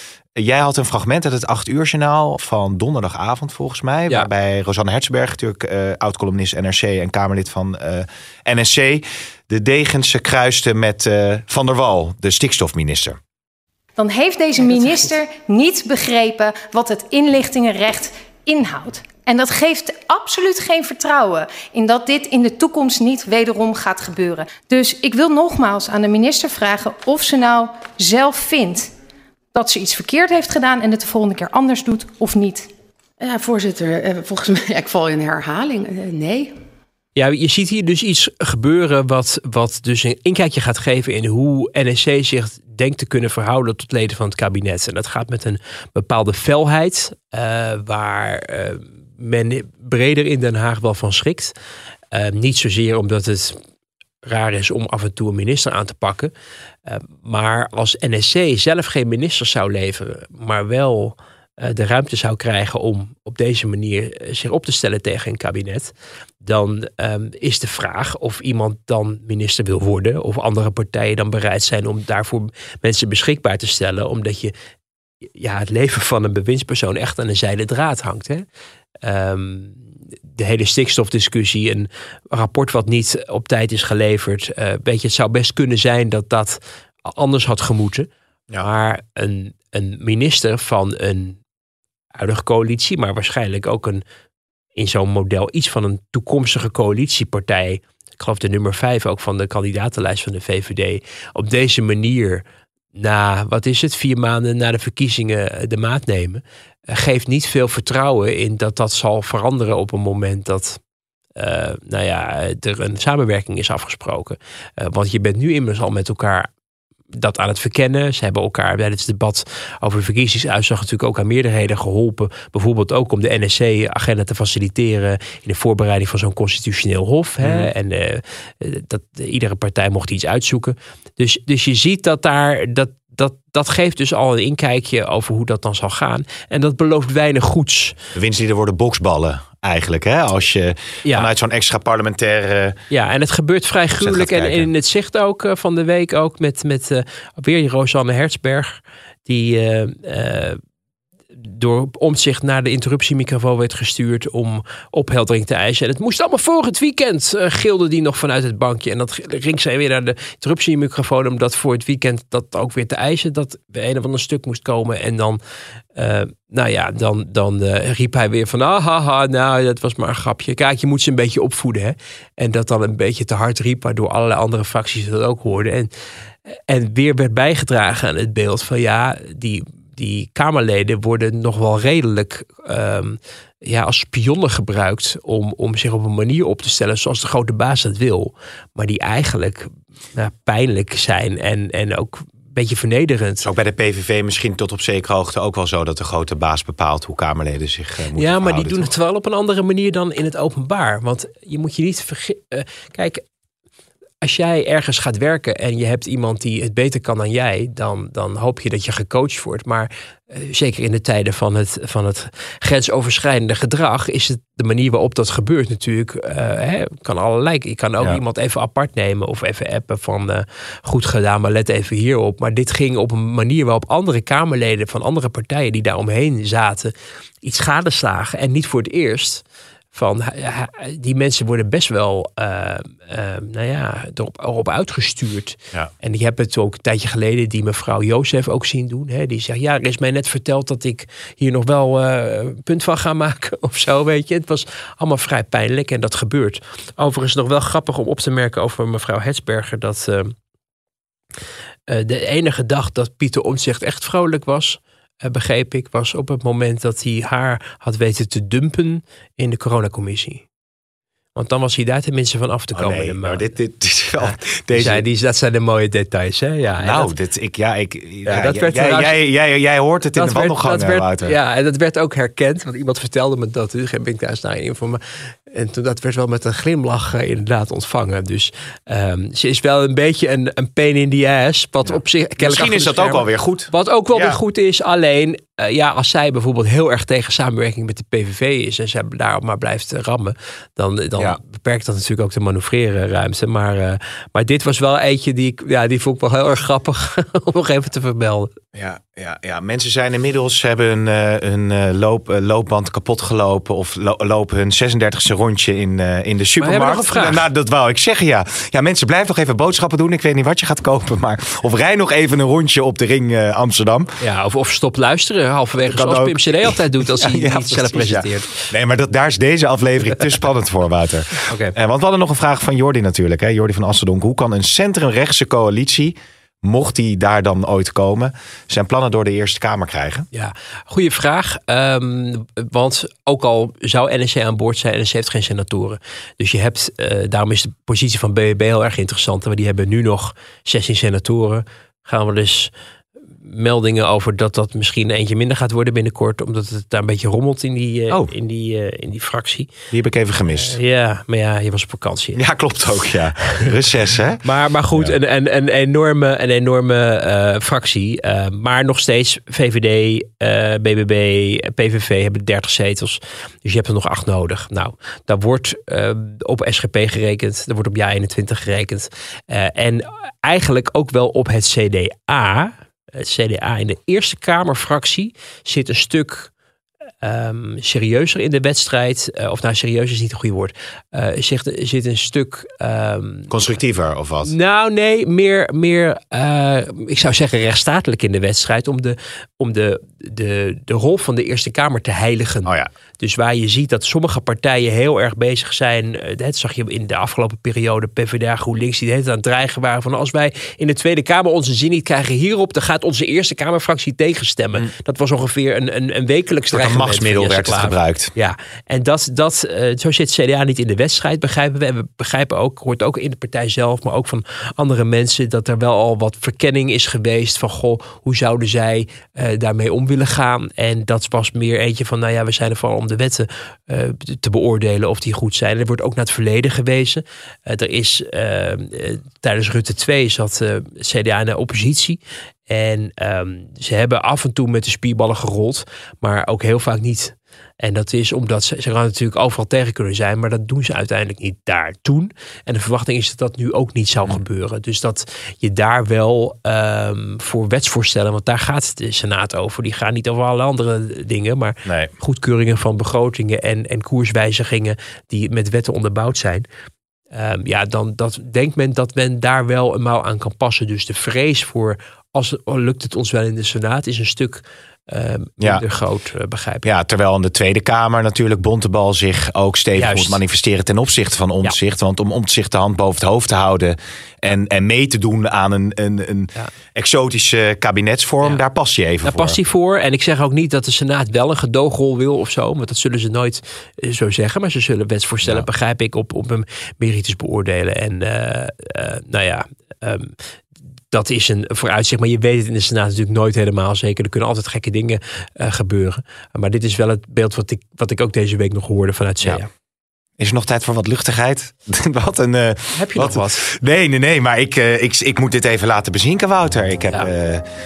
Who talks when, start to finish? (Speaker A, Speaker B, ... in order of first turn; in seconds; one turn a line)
Speaker A: 0.3-13.2
Speaker B: 14.0-28.9
Speaker B: 29.5-32.7
Speaker C: 33.2-36.5
Speaker D: 37.2-51.5
Speaker D: 52.1-53.6
Speaker D: 54.2-56.3
Speaker D: 56.9-74.5
Speaker D: 75.4-78.5
Speaker D: 79.0-79.8
Speaker D: 80.4-88.1
Speaker D: 88.6-91.4
Speaker D: 92.2-94.0
Speaker D: 94.8-102.4
Speaker D: 103.0-110.8
Speaker D: 111.4-116.5
Speaker D: 117.1-138.0
Speaker A: 127.4-127.7
Speaker A: 138.2-142.8
Speaker D: 142.9-150.6
Speaker A: 144.0-144.7
Speaker D: 151.3-165.4
Speaker D: 166.0-175.9
Speaker D: 176.5-193.5
Speaker A: 193.4-198.9
Speaker D: 198.2-203.2
Speaker D: 204.2-250.3
Speaker D: 251.9-260.4
Speaker D: 261.4-263.5
Speaker A: 262.7-265.0
Speaker D: 264.2-267.1
Speaker A: 266.8-271.4
Speaker D: 268.3-269.2
Speaker D: 270.1-298.5
Speaker A: 281.9-284.4
Speaker A: 298.7-314.1
Speaker D: 306.6-307.5
Speaker D: 314.2-318.7
Speaker A: 315.8-330.3
Speaker D: 321.5-321.8
Speaker D: 330.3-342.7
Speaker D: 343.4-349.7
Speaker A: 349.9-350.8
Speaker D: 350.5-352.4
Speaker A: 352.4-354.4
Speaker D: 354.4-376.5
Speaker D: 377.2-383.5
Speaker A: 383.5-384.5
Speaker D: 384.4-456.7
Speaker A: 406.7-408.3
Speaker A: 451.9-452.1
Speaker D: 457.3-466.9
Speaker A: 466.8-479.6
Speaker D: 470.0-470.4
Speaker D: 479.2-490.3
Speaker D: 491.1-499.7
Speaker A: 500.4-507.7
Speaker D: 502.9-503.6